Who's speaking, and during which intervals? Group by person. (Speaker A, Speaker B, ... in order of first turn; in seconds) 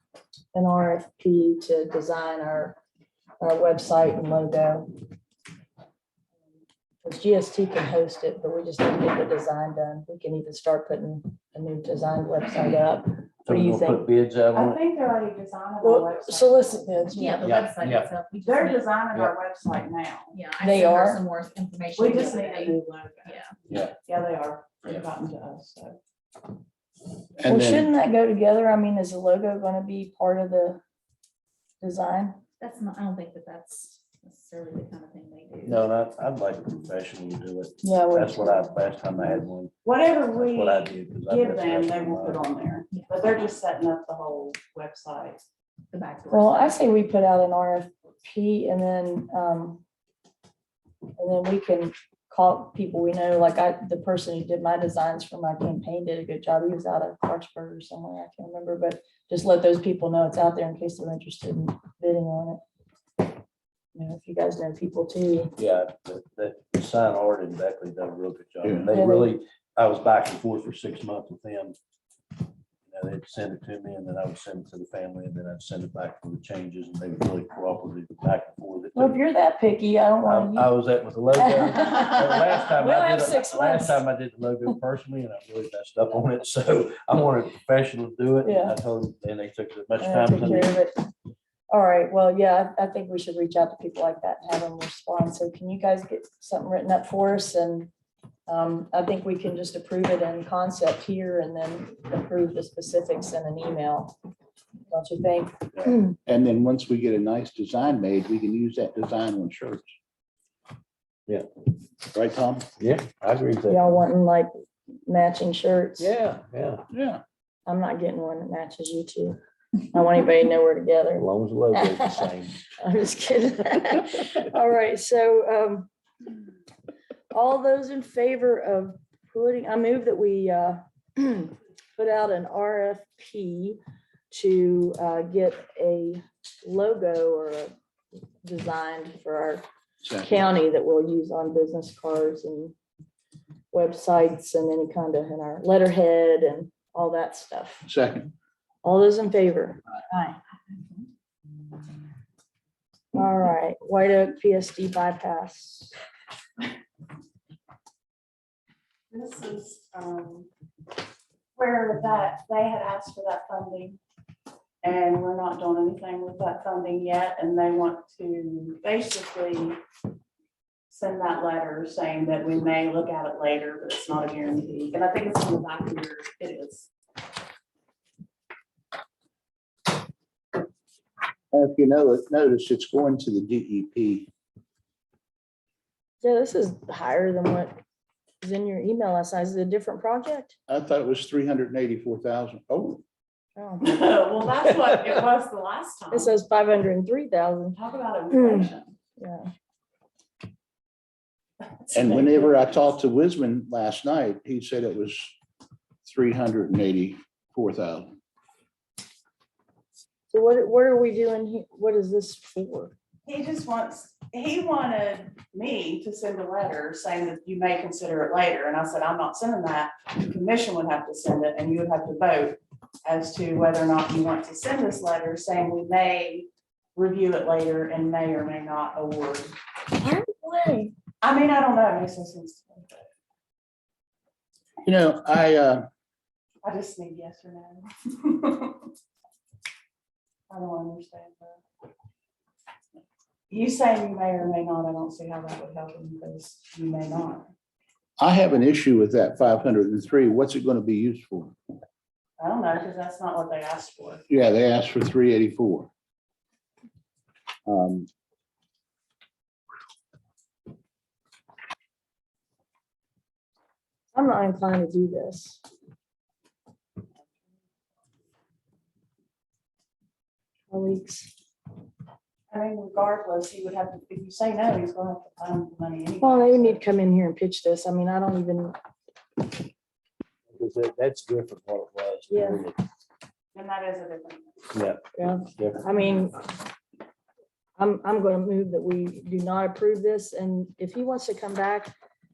Speaker A: 0.5-2.8, 3.4-4.9, 7.0-14.0, 15.8-17.5, 20.6-21.2, 27.4-30.8, 31.8-32.4, 37.8-38.7, 46.3-49.8, 51.1-62.6, 63.9-65.5, 68.9-69.3, 78.9-80.7, 81.4-84.0, 88.4-88.7, 90.0-91.0, 91.7-97.9, 98.5-104.1, 104.9-106.1, 113.7-114.5, 115.1-116.1, 117.7-119.4, 119.9-125.9, 127.3-133.8, 134.3-137.7, 138.4-142.7, 143.7-147.9, 148.8-150.4, 153.1-155.9, 186.2-187.7, 188.4-190.5, 193.6-194.2, 196.1-197.8, 198.3-199.5, 210.3-212.9, 230.0-230.9, 264.1-265.6, 270.7-271.3, 276.2-278.8, 282.3-282.6, 285.2-286.5, 287.8-291.9
Speaker B: 13.4-14.8, 17.4-18.1, 23.7-23.9, 35.6-39.7, 40.3-42.4, 65.6-71.8, 72.9-79.2, 80.2-90.8, 112.8-114.0, 116.0-116.8, 121.2-122.6, 280.5-282.8, 284.7-285.9
Speaker C: 14.5-16.8, 18.4-20.8, 21.9-26.0, 39.8-45.5, 159.1-160.5, 161.6-164.0, 164.8-169.8, 170.9-176.9, 193.8-196.3, 197.7-198.9, 201.9-202.4, 213.2-229.5, 231.2-233.1, 236.6-238.9, 240.5-241.6, 243.5-247.5, 252.4-254.2, 272.5-276.8, 283.5-284.7
Speaker D: 17.1-18.9, 20.3-23.6, 32.6-35.8, 42.9-43.4, 45.9-46.8
Speaker E: 27.4-27.9, 68.6-68.9, 106.2-109.9, 112.0-112.7, 116.9-117.2, 147.8-148.3, 181.5-184.3, 190.7-193.0, 201.9-205.3, 206.0-208.1, 234.8-235.9, 248.2-251.5, 254.3-255.9, 257.6-258.1